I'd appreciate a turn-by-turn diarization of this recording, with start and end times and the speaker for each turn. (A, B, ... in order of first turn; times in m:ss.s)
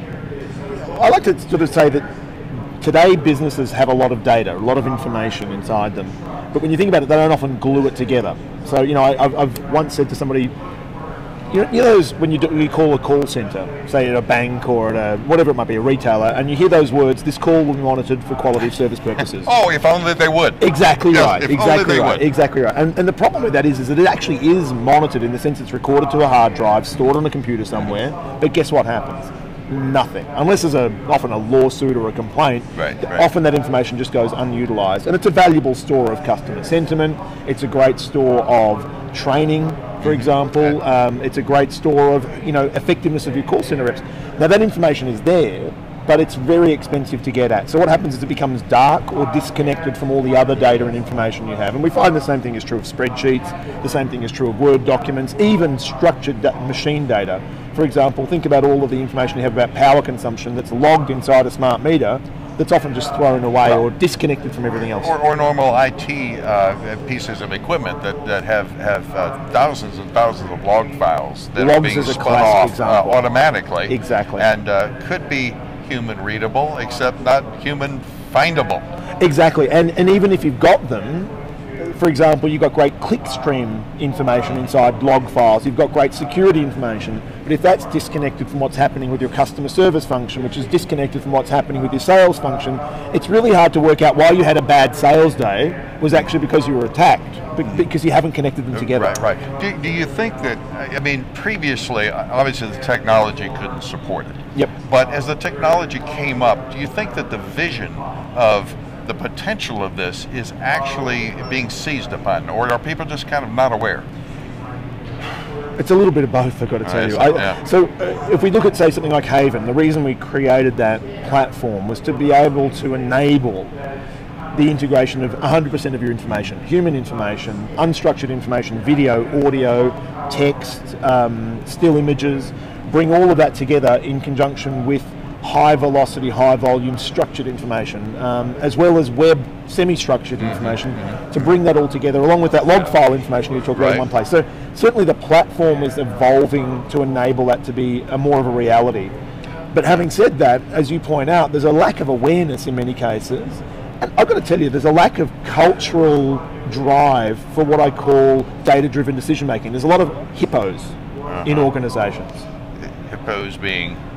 0:00.8-0:02.1 A
0:02.8-0:10.5 A
0:11.5-0:19.5 A
0:19.4-0:22.2 B
0:20.6-1:05.1 A
0:32.8-0:33.2 B
0:40.0-0:40.3 B
1:05.0-1:18.8 B
1:11.5-1:13.2 A
1:13.8-1:14.5 A
1:19.2-1:39.2 A
1:38.7-1:54.1 B
1:55.8-2:03.7 A
1:56.8-1:57.6 B
2:04.5-2:29.1 A
2:20.4-2:21.4 B
2:23.8-2:24.0 B
2:29.7-2:42.4 A
2:41.3-2:41.7 B
2:42.8-2:44.0 B